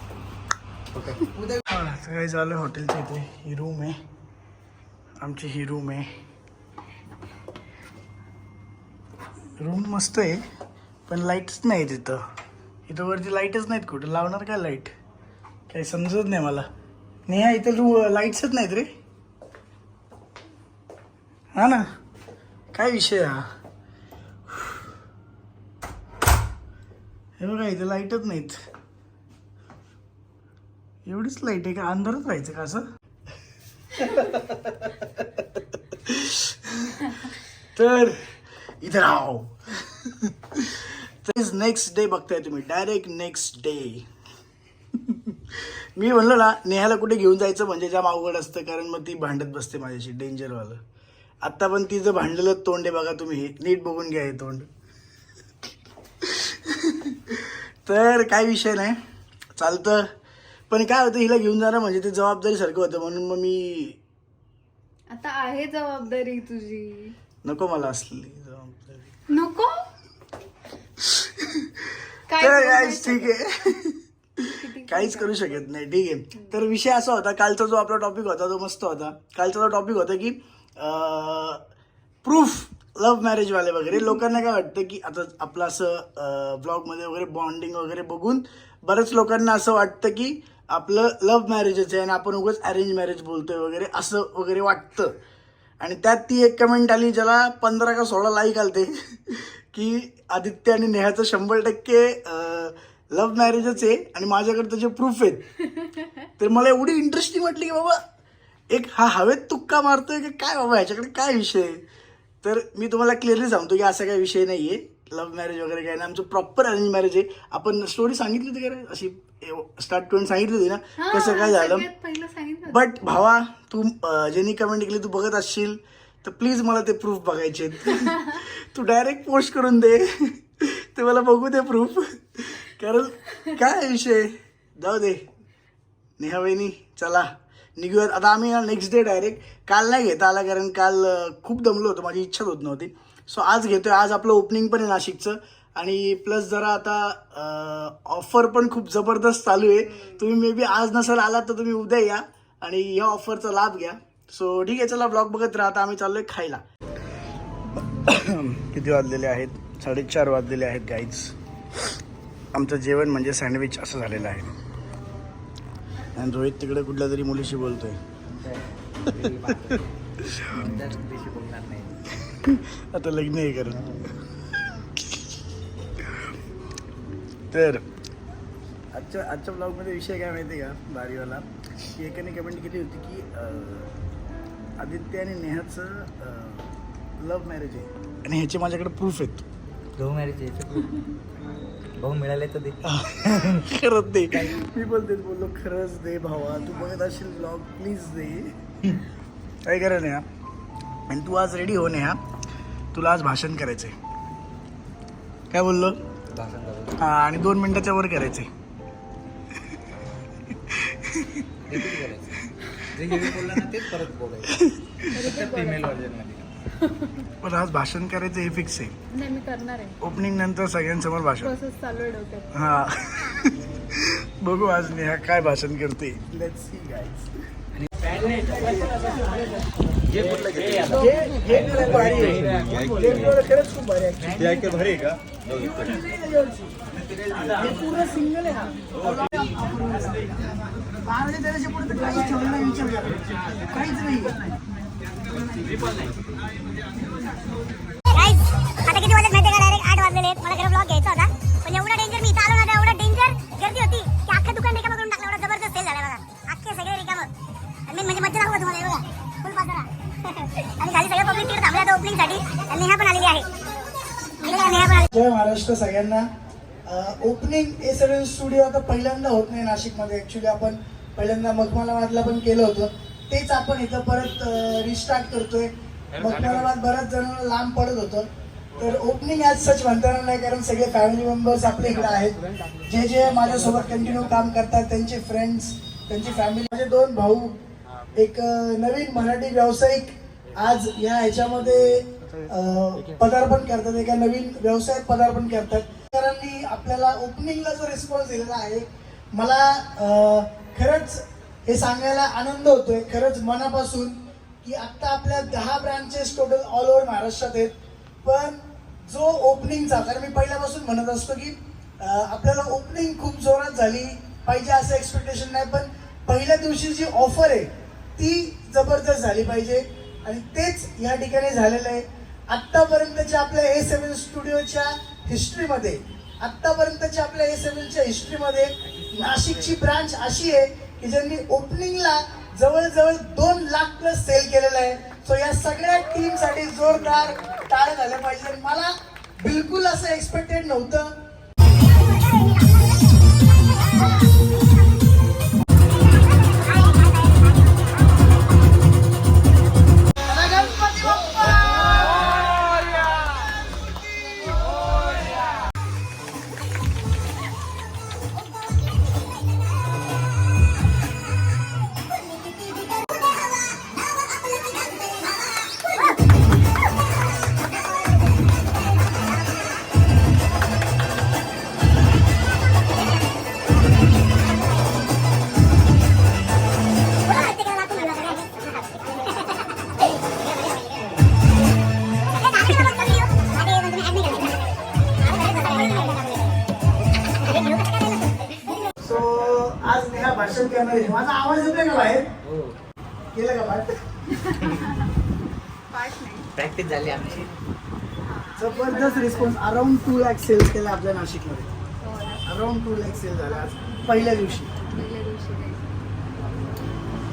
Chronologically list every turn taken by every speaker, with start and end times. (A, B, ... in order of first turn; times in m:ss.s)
0:01.0-0:01.3 A
0:01.6-0:04.0 B
0:05.2-0:06.1 B
0:09.6-0:10.4 B
0:11.1-0:12.2 B
0:12.9-0:14.9 B
0:15.7-0:16.7 B
0:17.3-0:18.9 B
0:21.5-0:21.8 B
0:22.7-0:23.4 B
0:27.4-0:28.6 B
0:31.0-0:32.8 B
0:34.0-0:34.7 B
0:35.9-0:37.2 B
0:37.7-0:38.2 B
0:38.8-0:44.0 B
0:45.1-0:50.8 B
0:51.4-0:54.7 B
0:56.2-0:59.0 B
0:59.6-1:00.1 B
1:00.7-1:04.0 B
1:05.1-1:07.1 C
1:07.4-1:09.1 B
1:09.3-1:09.8 C
1:11.0-1:11.8 B
1:12.3-1:13.8 C
1:12.4-1:21.6 B
1:14.5-1:15.3 C
1:22.2-1:35.1 B
1:35.8-1:45.4 B
1:46.4-1:48.0 B
1:48.7-1:51.8 B
1:52.4-2:01.8 B
2:01.0-2:02.8 C
2:02.7-2:15.2 B
2:16.2-2:36.6 B
2:37.8-2:41.3 B
2:42.5-2:44.5 B
2:46.1-2:48.0 B
2:48.3-2:49.9 A
2:49.1-2:50.7 B
2:50.5-2:52.0 A
2:52.2-2:53.9 B
2:56.0-2:56.3 B
2:57.5-2:57.8 B
2:58.9-3:03.9 B
3:04.8-3:06.7 B
3:07.2-3:09.4 B
3:10.0-3:11.0 A
3:12.0-3:12.8 A
3:12.8-3:18.9 B
3:14.3-3:14.6 A
3:19.6-3:20.2 B
3:21.1-3:22.2 B
3:22.9-3:24.0 B
3:25.5-3:26.0 B
3:26.3-3:27.0 A
3:27.0-3:28.5 B
3:30.5-3:31.8 B
3:31.7-3:32.3 A
3:32.9-3:34.6 A
3:34.5-3:35.1 B
3:35.1-3:36.0 C
3:35.2-3:36.5 A
3:36.7-3:37.3 C
3:37.4-3:39.0 B
3:39.1-3:40.0 C
3:40.0-3:41.5 B
3:41.4-3:42.5 C
3:42.5-3:47.3 B
3:47.8-3:48.1 A
3:48.3-3:49.5 B
3:50.1-3:51.1 A
3:50.8-3:56.7 B
3:54.3-3:55.2 A
3:57.2-3:57.5 A
3:57.4-4:00.5 B
4:01.0-4:04.5 B
4:08.1-4:17.3 D
4:17.9-4:23.5 D
4:24.4-4:25.1 D
4:25.1-4:26.3 B
4:26.9-4:47.6 B
4:48.1-5:07.7 B
5:08.2-5:41.1 B
5:46.7-5:47.0 D
5:50.3-5:52.5 B
5:51.0-5:51.6 C
6:17.2-6:19.9 D
6:22.4-6:24.6 D
6:25.2-6:26.6 D
6:27.4-6:28.9 D
6:29.0-6:32.3 B
6:32.4-6:32.7 A
6:33.3-6:33.9 B
6:34.3-6:35.1 C
6:35.9-6:36.5 C
6:36.6-6:37.5 A
6:38.2-6:39.6 C
6:38.6-6:41.7 B
6:42.0-6:42.4 C
6:42.4-6:44.7 B
6:44.2-6:45.9 C